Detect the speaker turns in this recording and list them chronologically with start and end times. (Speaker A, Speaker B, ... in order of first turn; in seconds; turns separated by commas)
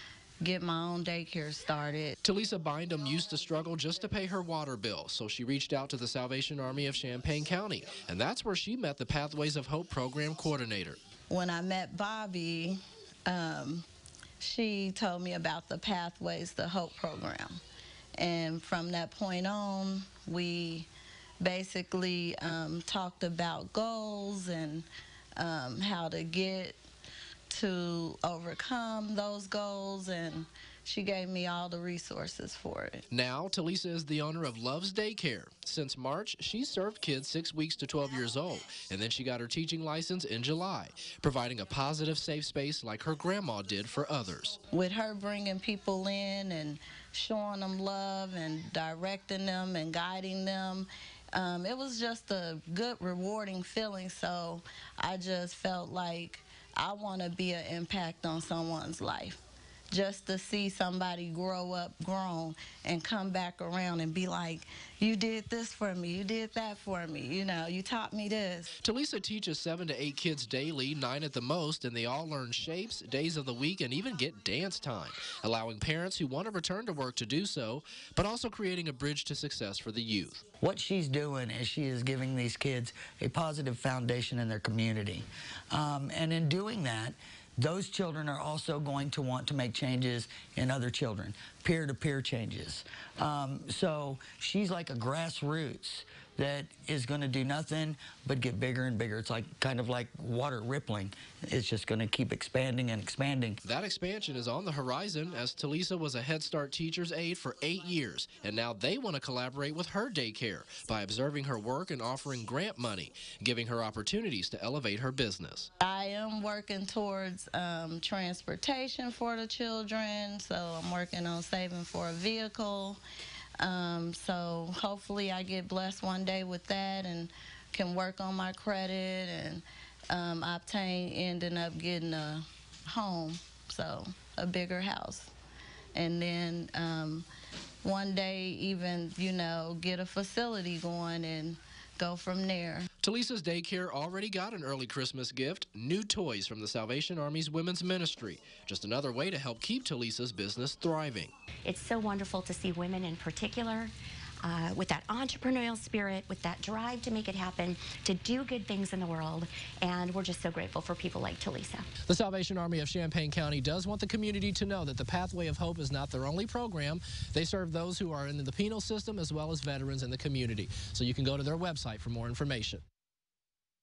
Speaker A: 0.4-2.2, Speaker B: 2.2-11.0, Speaker A: 11.3-13.8, Speaker A: 14.4-17.6, Speaker A: 18.2-20.9, Speaker A: 21.4-26.8, Speaker A: 27.5-33.0, Speaker B: 33.1-44.6, Speaker A: 44.7-68.7, Speaker B: 68.8-80.4, Speaker C: 80.6-103.6, Speaker B: 103.6-115.7, Speaker A: 115.8-123.0, Speaker A: 123.6-135.3, Speaker A: 135.9-137.3, Speaker A: 137.8-142.9, Speaker B: 143.0-151.3, Speaker D: 151.7-161.9, Speaker B: 162.1-172.8